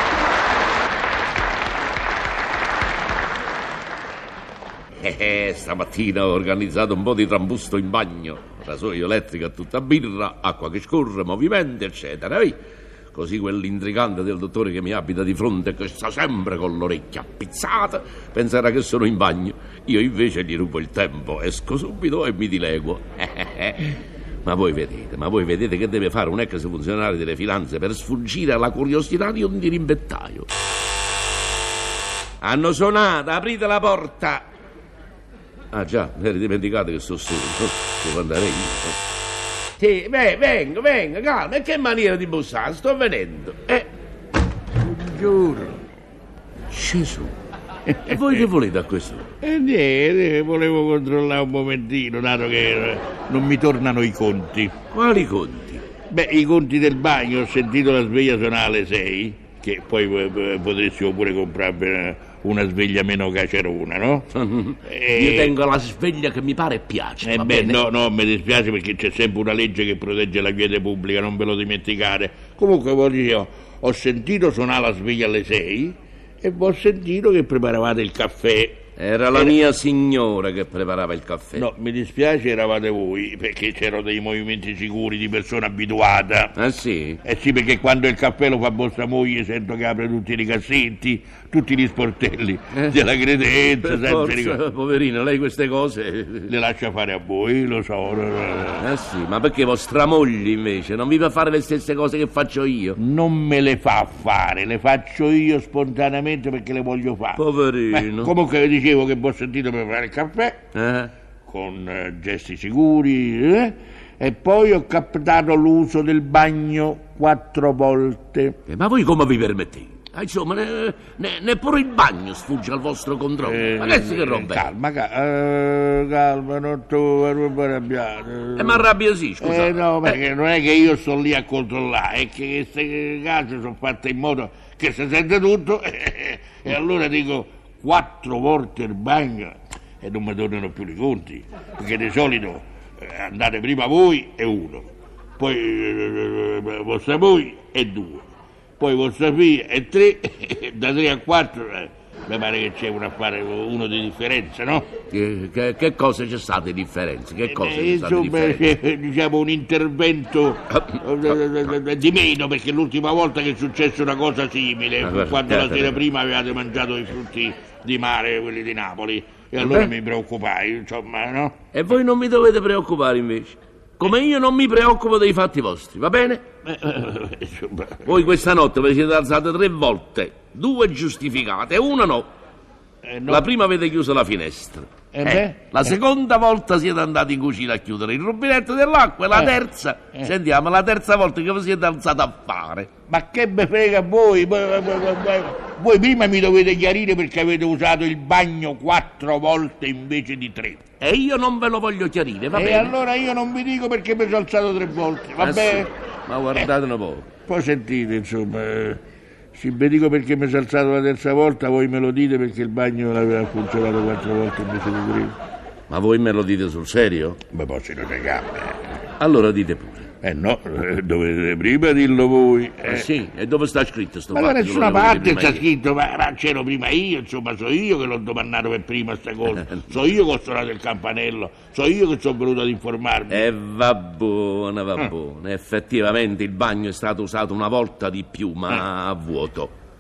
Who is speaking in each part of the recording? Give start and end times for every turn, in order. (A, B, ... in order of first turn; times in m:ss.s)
0:05.0-0:12.6 A
0:13.1-0:30.5 A
0:32.4-0:34.4 A
0:35.7-0:39.0 A
0:39.8-0:43.9 A
0:44.8-0:45.8 B
0:46.7-0:47.3 A
0:47.9-0:48.3 B
0:48.0-0:49.3 A
0:49.4-0:54.7 B
0:54.9-0:55.8 A
0:56.1-1:04.3 B
1:04.3-1:07.8 A
1:04.9-1:05.5 B
1:07.2-1:19.6 B
1:19.0-1:21.7 A
1:21.5-1:26.6 B
1:26.6-1:27.2 A
1:27.2-1:34.6 B
1:32.7-1:33.0 A
1:33.7-1:36.5 A
1:36.5-1:38.9 B
1:38.8-1:43.0 A
1:43.0-1:50.6 B
1:47.4-1:48.3 A
1:50.8-1:51.1 A
1:51.5-1:58.6 B
1:58.7-2:04.7 A
2:03.4-2:08.9 B
2:08.6-2:10.2 A
2:09.4-2:24.9 B
2:25.4-2:28.2 B
2:28.8-2:34.9 B
2:35.1-2:38.6 A
2:37.4-2:51.6 B
2:45.0-2:46.0 A
2:49.6-2:49.9 A
2:51.7-2:56.4 A
2:56.6-2:58.2 B
2:58.0-3:02.3 A
3:03.0-3:03.5 B
3:03.3-3:12.9 A
3:05.1-3:06.0 B
3:13.1-3:20.8 B
3:21.0-3:22.9 A
3:22.5-3:25.9 B
3:25.4-3:27.3 A
3:27.5-3:29.0 B
3:29.5-3:35.4 B
3:35.9-3:37.4 A
3:37.5-3:38.8 B
3:39.2-3:40.1 A
3:40.2-3:43.1 B
3:42.8-3:45.6 A
3:44.3-3:53.5 B
3:49.5-3:49.9 A
3:53.3-3:59.7 A